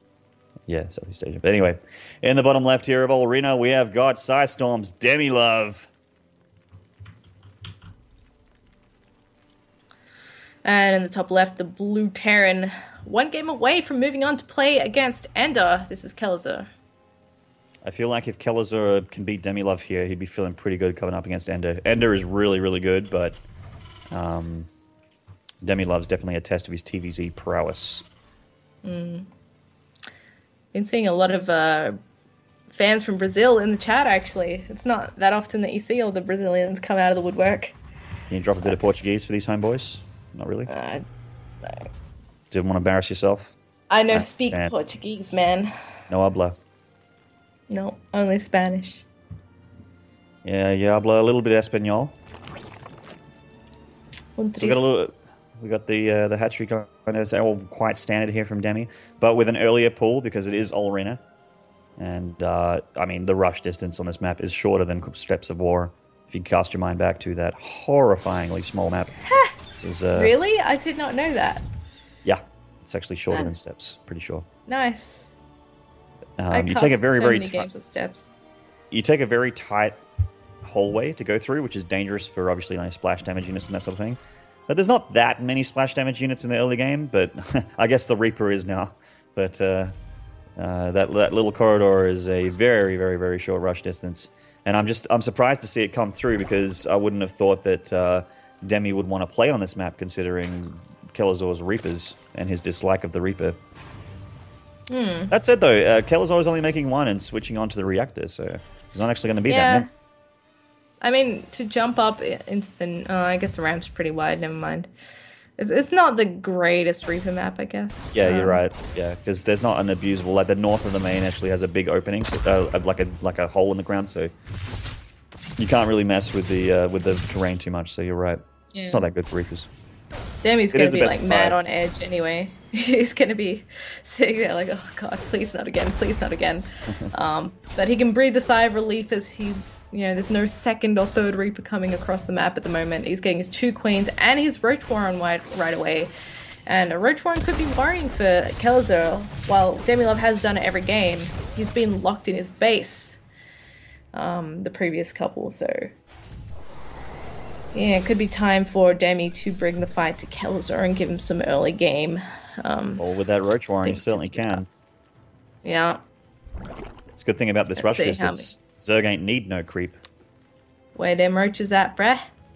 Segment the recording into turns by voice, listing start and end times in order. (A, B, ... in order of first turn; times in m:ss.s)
0:00.7-0:05.9 A
0:10.6-0:16.7 B
0:17.8-0:23.4 A
0:24.1-0:24.7 A
0:25.6-0:28.0 A
0:28.8-0:29.3 B
0:30.7-0:32.0 B
0:32.7-0:37.8 B
0:38.3-0:40.7 A
0:38.6-0:39.1 B
0:40.7-0:41.0 B
0:41.6-0:41.9 B
0:42.5-0:43.5 A
0:43.9-0:45.7 B
0:44.1-0:44.7 A
0:46.1-0:46.6 A
0:47.7-0:49.0 B
0:50.4-0:52.2 A
0:54.4-0:54.9 B
0:54.6-1:01.2 A
1:02.0-1:10.3 A
1:10.1-1:11.7 B
1:12.2-1:14.4 A
1:14.7-1:15.4 B
1:16.4-1:17.7 A
1:16.5-1:18.3 B
1:18.9-1:20.0 A
1:20.6-1:29.9 A
1:30.6-1:43.6 A
1:44.9-1:45.3 B
1:45.3-1:49.9 A
1:49.5-1:49.9 B
1:51.0-1:54.9 B
1:55.6-1:58.6 B
1:58.1-2:04.3 A
2:05.6-2:09.7 A
2:08.7-2:09.1 B
2:10.4-2:26.1 B
2:10.7-2:11.6 A
2:26.7-2:33.2 B
2:34.1-2:35.9 B
2:37.7-2:43.0 B
2:43.0-2:44.7 A
2:43.8-2:44.6 B
2:45.6-2:46.0 B
2:47.1-2:50.0 A
2:47.8-2:48.5 B
2:50.9-2:52.3 B